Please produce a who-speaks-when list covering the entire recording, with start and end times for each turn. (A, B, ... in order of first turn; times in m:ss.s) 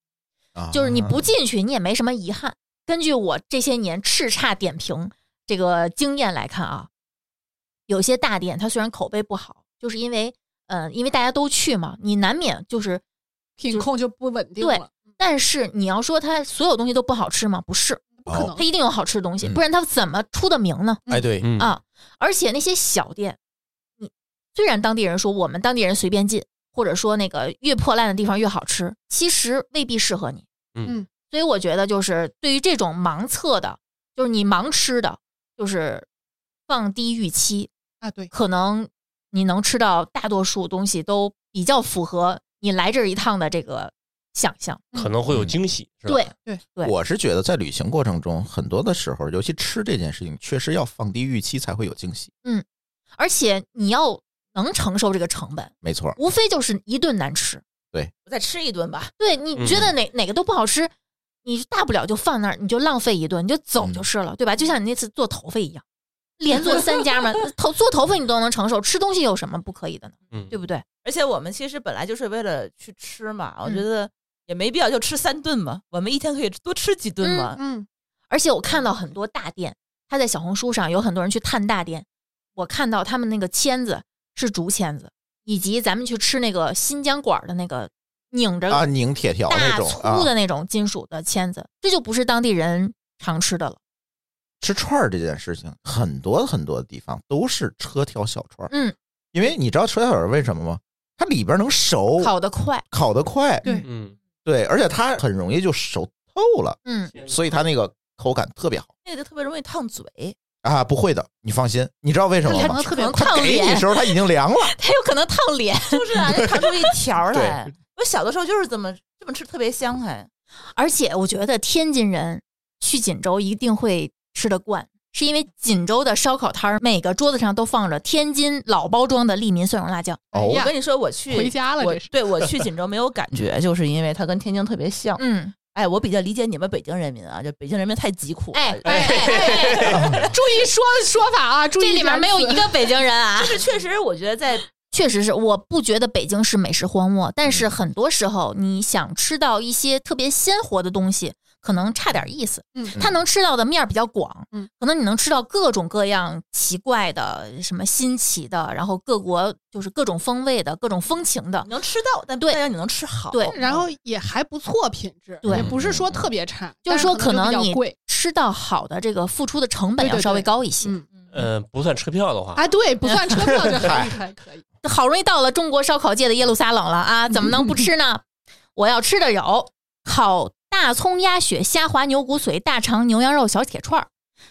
0:00.6-0:01.3 A
0:00.7-0:06.9 B
0:07.9-0:13.0 B
0:13.6-0:14.9 C
0:14.6-0:18.0 B
0:18.2-0:18.7 C
0:18.3-0:18.5 A
0:18.6-0:21.0 B
0:21.1-0:21.5 A
0:21.4-0:21.7 D
0:21.6-0:23.4 B
0:24.0-0:30.4 B
0:31.3-0:36.1 B
0:36.7-0:37.7 B
0:38.0-0:38.3 C
0:38.3-0:44.8 B
0:45.0-0:46.3 D
0:45.3-0:45.6 A
0:46.1-0:46.9 B
0:46.8-0:52.3 A
0:53.2-0:57.6 B
0:55.8-0:56.2 A
0:58.3-0:59.1 E
0:59.2-1:00.9 B
0:59.6-0:59.9 D
1:01.4-1:05.8 B
1:06.4-1:10.8 B
1:11.0-1:17.6 E
1:17.2-1:17.5 B
1:17.6-1:17.9 C
1:18.3-1:22.0 B
1:22.6-1:28.9 B
1:28.7-1:30.3 A
1:29.5-1:33.8 B
1:34.6-1:38.7 A
1:38.7-1:39.0 B
1:39.3-1:42.3 A
1:42.2-1:42.8 B
1:42.9-1:43.8 A
1:43.8-1:44.2 D
1:44.4-1:48.9 A
1:46.8-1:47.1 B
1:49.0-1:50.4 E
1:50.6-1:54.7 A
1:52.4-1:56.0 B
1:52.5-1:53.3 C
1:55.9-2:00.3 E
1:57.3-1:57.6 A
2:00.8-2:10.2 B
2:10.3-2:10.7 A
2:10.3-2:10.7 C
2:10.5-2:20.3 E
2:11.3-2:12.1 C
2:15.2-2:15.5 B
2:18.5-2:20.0 B
2:18.8-2:22.7 C
2:19.1-2:19.8 D
2:19.9-2:20.2 A
2:21.8-2:23.6 B
2:23.4-2:24.7 E
2:24.9-2:41.7 B
2:41.7-2:43.6 E
2:43.3-2:43.6 B
2:43.5-2:48.0 C
2:45.4-2:45.7 B
2:45.5-2:46.3 A
2:46.9-2:51.0 B
2:50.0-2:51.1 C
2:51.3-2:52.7 D
2:52.6-2:54.6 C
2:53.3-2:53.9 D
2:53.8-2:54.2 A
2:54.8-2:58.2 B
2:58.8-3:04.1 B